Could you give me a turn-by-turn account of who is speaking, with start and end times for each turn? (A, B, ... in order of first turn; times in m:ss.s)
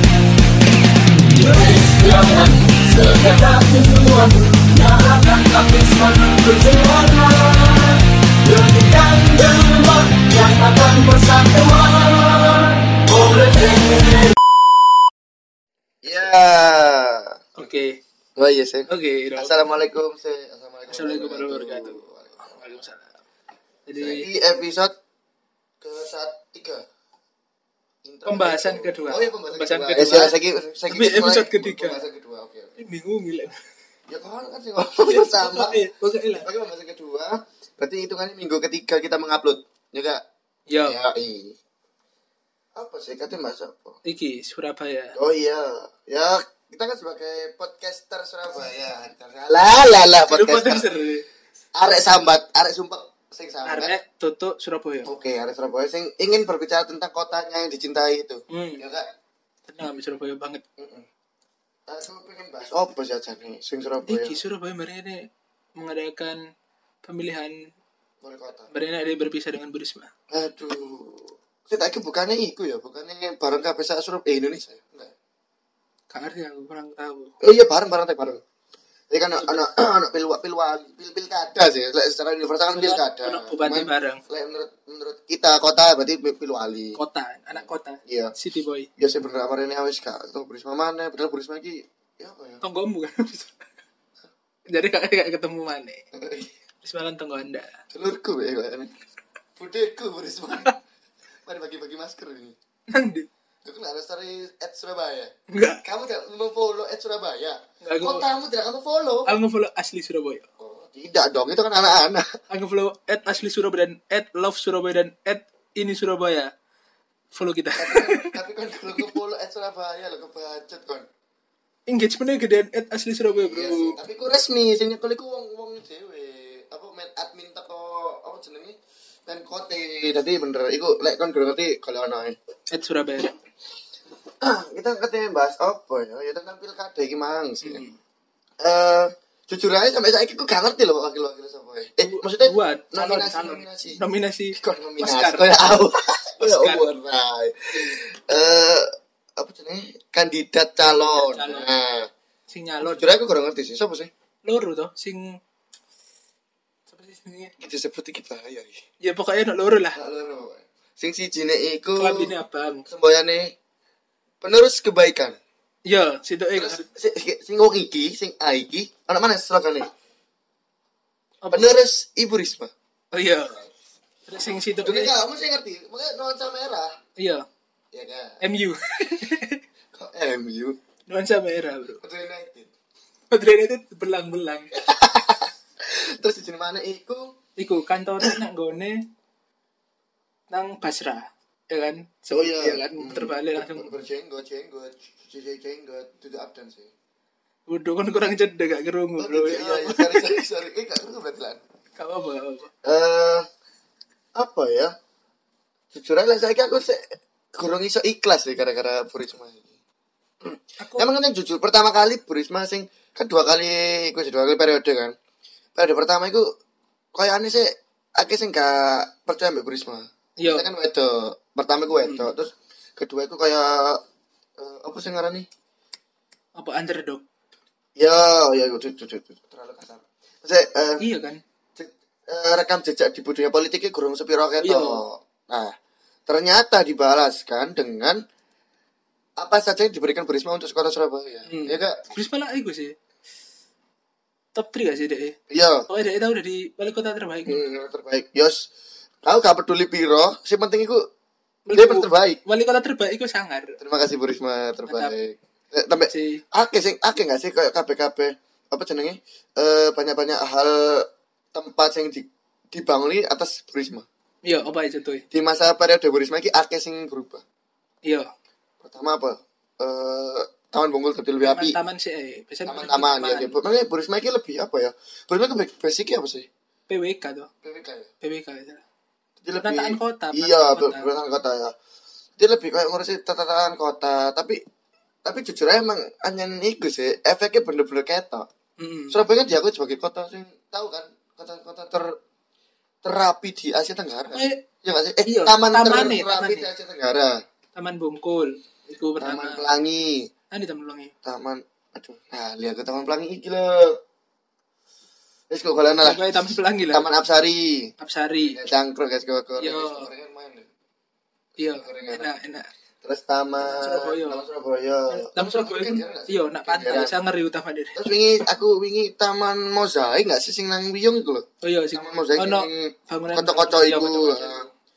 0:01.2-0:14.4 A
0:16.0-0:17.4 B
0:17.6-0:18.0 C
0:18.4-0:22.7 B
0:18.9-0:19.7 C
0:20.9-0:23.2 C
0:23.9-0:24.3 C
0:24.0-0:25.0 B
0:25.8-0:26.8 B
0:28.0-0:32.8 B
0:28.3-0:30.4 C
0:30.9-0:32.0 C
0:32.8-0:33.6 C
0:34.1-0:40.2 B
0:35.0-0:36.5 C
0:40.7-0:41.0 C
0:40.8-0:41.6 B
0:42.8-0:44.0 B
0:44.0-0:45.2 C
0:45.2-0:50.9 B
0:50.3-0:51.2 C
0:51.8-0:54.0 B
0:53.6-0:55.1 C
0:55.0-0:59.1 B
0:58.5-0:58.8 C
0:59.7-1:00.6 C
1:00.8-1:01.1 B
1:01.9-1:04.4 B
1:04.1-1:05.3 C
1:05.8-1:06.4 C
1:07.0-1:07.6 C
1:08.2-1:08.7 B
1:08.7-1:10.1 C
1:10.3-1:15.1 B
1:16.1-1:17.4 C
1:17.4-1:18.4 B
1:19.1-1:27.0 B
1:22.7-1:24.2 C
1:27.0-1:28.9 C
1:27.5-1:28.3 B
1:29.0-1:32.6 B
1:32.6-1:33.5 C
1:34.7-1:36.0 C
1:36.1-1:36.5 B
1:36.8-1:37.8 C
1:37.9-1:38.9 B
1:39.6-1:40.8 B
1:41.4-1:42.6 B
1:42.9-1:43.3 C
1:43.6-1:45.3 B
1:45.5-1:45.8 C
1:45.8-1:49.3 B
1:47.8-1:48.3 C
1:49.3-1:50.5 C
1:50.6-1:52.3 B
1:52.5-1:56.5 C
1:57.4-1:58.4 C
1:57.8-2:01.1 B
2:01.9-2:04.0 C
2:03.3-2:12.4 B
2:12.7-2:13.4 C
2:14.4-2:17.8 B
2:17.6-2:18.0 C
2:18.6-2:24.0 B
2:22.0-2:25.8 C
2:24.6-2:32.1 B
2:26.4-2:26.9 C
2:30.8-2:31.7 C
2:32.5-2:33.1 C
2:32.8-2:34.1 B
2:34.4-2:35.4 C
2:36.9-2:37.5 C
2:37.6-2:38.8 B
2:39.0-2:40.0 C
2:40.0-2:42.3 B
2:42.0-2:42.9 C
2:42.9-2:43.5 B
2:44.4-2:45.4 B
2:45.9-2:46.9 C
2:46.5-2:49.9 B
2:51.4-2:51.8 C
2:51.5-2:52.7 B
2:53.1-2:53.6 C
2:54.3-2:55.1 C
2:54.8-2:56.9 B
2:57.2-2:57.5 C
2:57.9-2:58.4 B
2:58.4-2:59.6 C
2:59.9-3:00.8 B
3:01.1-3:02.0 C
3:02.0-3:02.7 B
3:03.3-3:04.7 C
3:04.7-3:07.3 B
3:07.6-3:09.0 C
3:10.5-3:14.0 C
3:12.3-3:16.9 B
3:17.7-3:20.4 C
3:19.2-3:21.6 B
3:22.0-3:22.7 C
3:22.8-3:23.5 B
3:24.4-3:24.9 B
3:25.9-3:29.8 B
3:30.4-3:35.2 B
3:30.8-3:31.1 C
3:35.8-3:36.5 B
3:37.1-3:44.0 B
3:40.4-3:40.7 C
3:42.0-3:42.3 C
3:44.6-3:45.5 B
3:46.6-3:47.2 C
3:48.0-3:51.0 B
3:51.0-3:51.4 C
3:51.8-3:55.8 B
3:54.6-3:55.0 C
3:56.3-3:58.2 B
3:59.4-4:02.0 B
4:01.5-4:03.0 C
4:04.6-4:05.4 C
4:05.5-4:05.9 B
4:05.9-4:07.7 C
4:07.5-4:08.7 B
4:09.2-4:11.1 B
4:11.7-4:13.8 C
4:11.7-4:12.4 B
4:13.8-4:24.1 B
4:14.9-4:15.2 C
4:16.1-4:16.4 C
4:24.5-4:25.2 C
4:25.3-4:27.4 B
4:28.8-4:31.8 B
4:31.4-4:33.6 C
4:32.7-4:36.5 B
4:36.9-4:37.5 C
4:37.6-4:38.1 B
4:38.2-4:38.8 C
4:39.4-4:41.8 B
4:39.6-4:41.1 C
4:42.4-4:44.6 B
4:45.2-4:48.5 B
4:48.8-4:49.2 C
4:49.1-4:52.1 B
4:53.0-4:57.4 B
4:54.3-4:54.6 C
4:55.2-4:56.7 C
4:57.8-4:59.6 C
4:59.2-5:00.3 B
5:00.5-5:01.1 C
5:01.2-5:04.0 B
5:05.5-5:07.9 B
5:06.0-5:07.1 C
5:08.0-5:08.6 C
5:08.4-5:10.7 B
5:09.6-5:10.1 C
5:11.6-5:12.7 C
5:11.8-5:12.3 B
5:13.0-5:17.1 B
5:13.6-5:14.4 C
5:15.1-5:18.1 C
5:18.0-5:24.7 B
5:21.6-5:24.7 C